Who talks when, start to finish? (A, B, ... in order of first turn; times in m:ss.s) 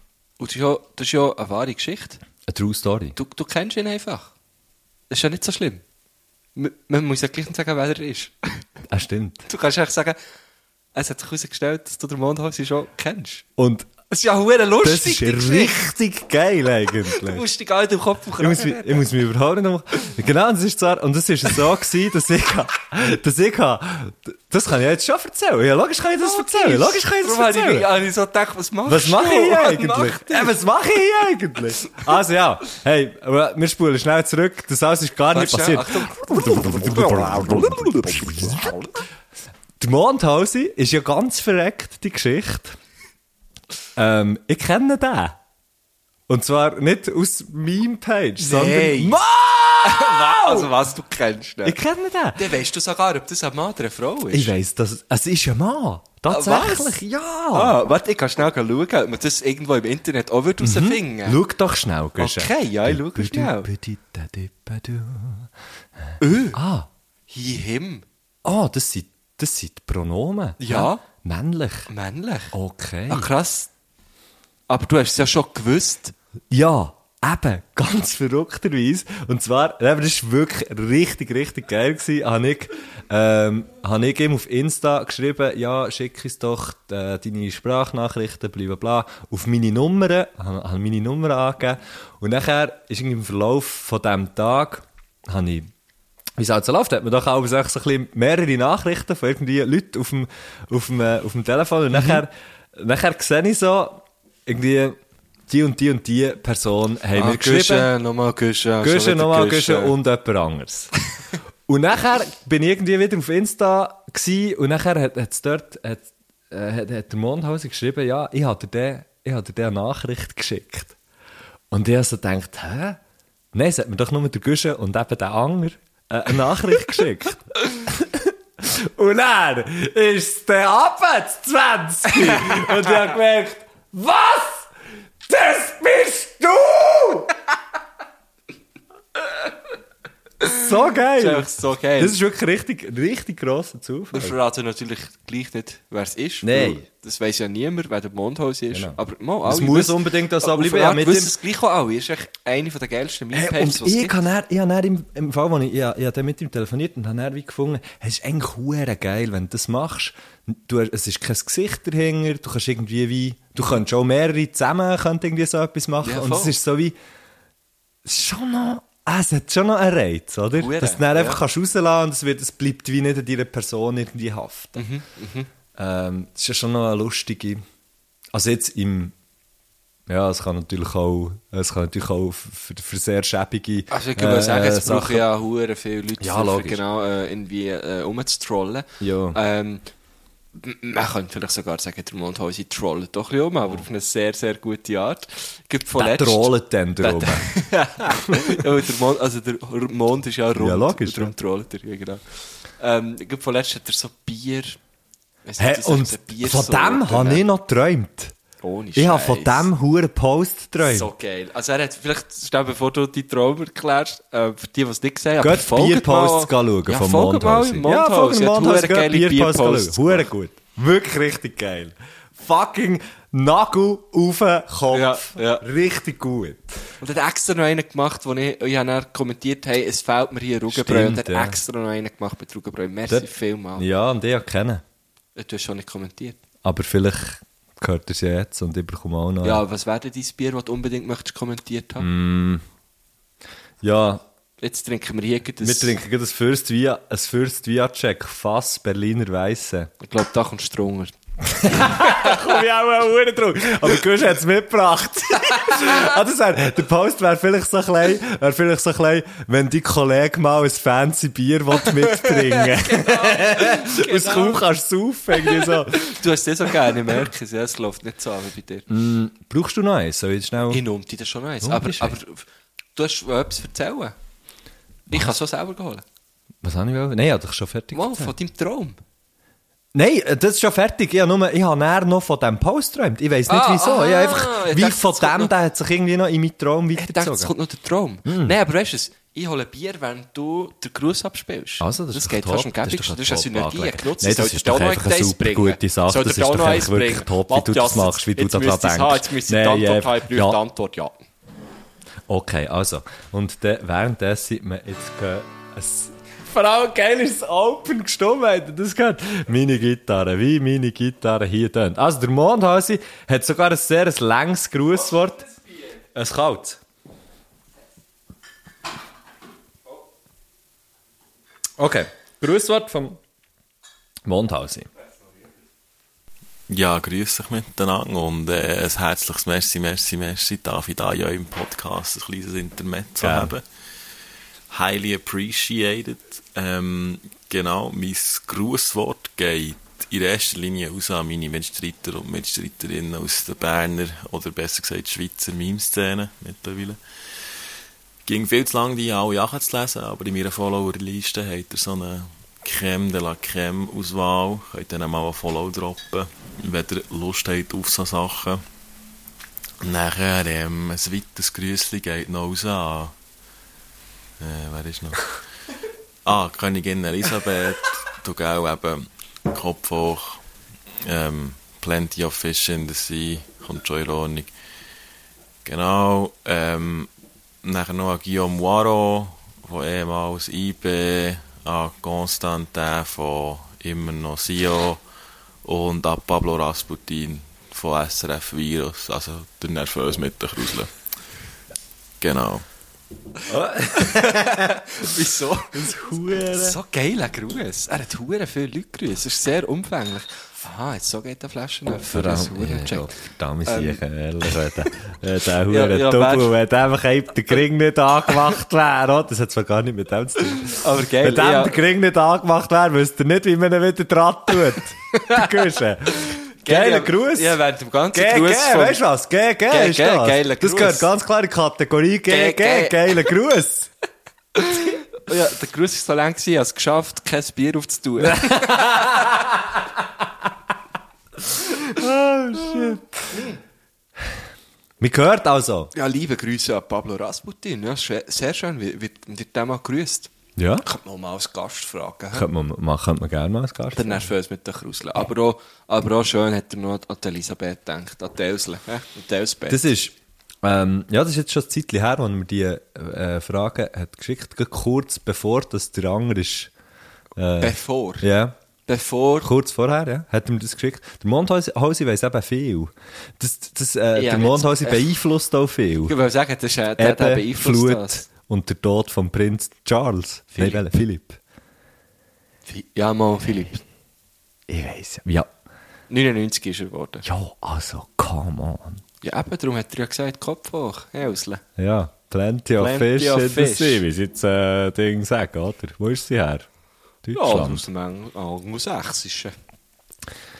0:00.4-0:02.2 A
0:02.5-0:03.2 B
0:03.2-0:04.3 A
0:05.1-0:05.8 A
0:06.6-0:08.6 A
0:08.9-0:09.4 B
0:09.5-0:10.2 A
0:10.9-0:13.4 A
0:13.6-0:13.9 B
0:14.1-0:15.8 A
0:14.8-0:17.4 B
0:17.0-0:19.1 A
0:18.4-0:27.9 B
0:26.2-0:30.6 A
0:28.9-0:38.7 B
0:35.3-0:38.9 A
0:39.8-0:42.8 B
0:44.0-0:45.4 B
0:46.3-0:50.7 B
0:48.4-0:49.2 A
0:49.8-0:51.8 A
0:51.6-0:52.5 B
0:52.4-0:54.5 A
0:54.3-0:57.7 B
0:56.3-1:01.4 A
1:00.6-1:05.5 B
1:02.2-1:03.7 A
1:06.2-1:06.6 A
1:06.5-1:06.9 B
1:07.3-1:08.0 A
1:08.4-1:11.9 B
1:10.6-1:11.0 A
1:11.9-1:12.5 A
1:12.5-1:13.3 B
1:13.1-1:13.7 A
1:14.7-1:16.1 A
1:16.5-1:35.7 B
1:36.4-1:47.9 B
1:47.1-1:49.9 A
1:48.8-1:50.9 B
1:51.7-2:00.9 B
2:01.7-2:03.0 B
2:03.5-2:14.7 B
2:15.2-2:17.3 B
2:20.5-2:21.5 B
2:21.2-2:22.2 A
2:22.0-2:24.4 B
2:24.1-2:34.2 A
2:26.4-2:26.8 B
2:28.7-2:31.3 B
2:33.3-2:46.9 B
2:46.0-2:46.6 A
2:48.0-2:54.8 B
2:50.6-2:51.4 A
2:54.8-2:55.5 A
2:55.8-2:57.6 B
2:58.3-2:59.1 B
3:00.1-3:05.3 B
3:03.9-3:09.8 A
3:06.2-3:06.8 B
3:09.0-3:09.4 B
3:10.5-3:22.2 A
3:16.0-3:17.5 B
3:18.3-3:18.6 B
3:20.5-3:21.3 B
3:22.8-3:24.8 A
3:25.4-3:27.4 A
3:25.6-3:28.3 B
3:28.6-3:29.7 A
3:29.0-3:31.1 B
3:30.8-3:40.3 A
3:35.4-3:46.6 B
3:44.9-3:45.6 A
3:47.0-3:53.8 A
3:50.7-3:51.6 B
3:53.1-3:54.8 B
3:55.4-3:56.4 A
3:56.6-3:59.6 B
3:59.4-4:02.1 A
4:02.0-4:02.6 B
4:03.8-4:04.2 B
4:04.6-4:06.0 A
4:05.6-4:09.9 B
4:10.0-4:11.1 A
4:11.4-4:26.1 B
4:11.7-4:12.4 A
4:15.6-4:16.0 A
4:22.0-4:24.6 A
4:25.3-4:28.9 A
4:28.9-4:30.8 B
4:30.7-4:34.1 A
4:31.6-4:32.2 B
4:35.1-4:36.0 A
4:36.6-4:38.3 B
4:37.9-4:39.0 A
4:39.9-4:47.5 B
4:43.5-4:45.5 A
4:46.9-5:01.2 A
4:48.2-4:48.5 B
4:51.8-5:00.6 B
5:02.3-5:15.5 B
5:16.1-5:16.8 B
5:21.8-5:23.2 B
5:24.3-5:24.9 B
5:26.7-5:33.6 C
5:33.2-5:33.5 B
5:34.7-5:47.0 C
5:48.2-5:58.6 C
5:59.8-6:03.1 C
6:04.4-6:05.4 C
6:06.2-6:10.4 C
6:11.0-6:14.5 C
6:15.6-6:17.1 C
6:17.6-6:25.0 C
6:25.6-6:30.9 C
6:32.2-6:32.6 C
6:33.5-6:35.0 B
6:33.9-6:35.9 A
6:35.7-6:36.8 B
6:36.5-6:43.1 A
6:42.0-6:57.6 B
6:43.6-6:44.7 A
6:45.7-6:46.5 A
6:50.6-6:51.8 A
6:55.2-6:55.4 A
6:56.3-6:59.0 A
6:58.1-7:03.9 B
6:59.7-7:01.1 A
7:02.3-7:03.2 A
7:04.6-7:09.3 A
7:08.2-7:10.0 B
7:11.5-7:13.4 B
7:13.3-7:13.6 A
7:15.0-7:15.9 B
7:15.9-7:20.3 A
7:20.6-7:20.8 B
7:20.8-7:22.5 A
7:22.3-7:24.2 B
7:23.9-7:29.8 A
7:29.7-7:36.7 B
7:37.4-7:38.5 B
7:37.6-7:38.2 A
7:38.8-7:39.5 A
7:39.4-7:46.1 B
7:44.1-7:45.1 A
7:46.1-7:48.2 A
7:47.0-7:51.4 B
7:50.5-7:50.9 A
7:52.7-7:53.8 A
7:54.7-7:55.5 B
7:56.1-7:57.2 A
7:57.2-7:59.0 B
7:59.2-8:01.6 A
8:01.8-8:06.6 B
8:02.8-8:04.0 A
8:07.2-8:07.8 B
8:07.3-8:09.5 A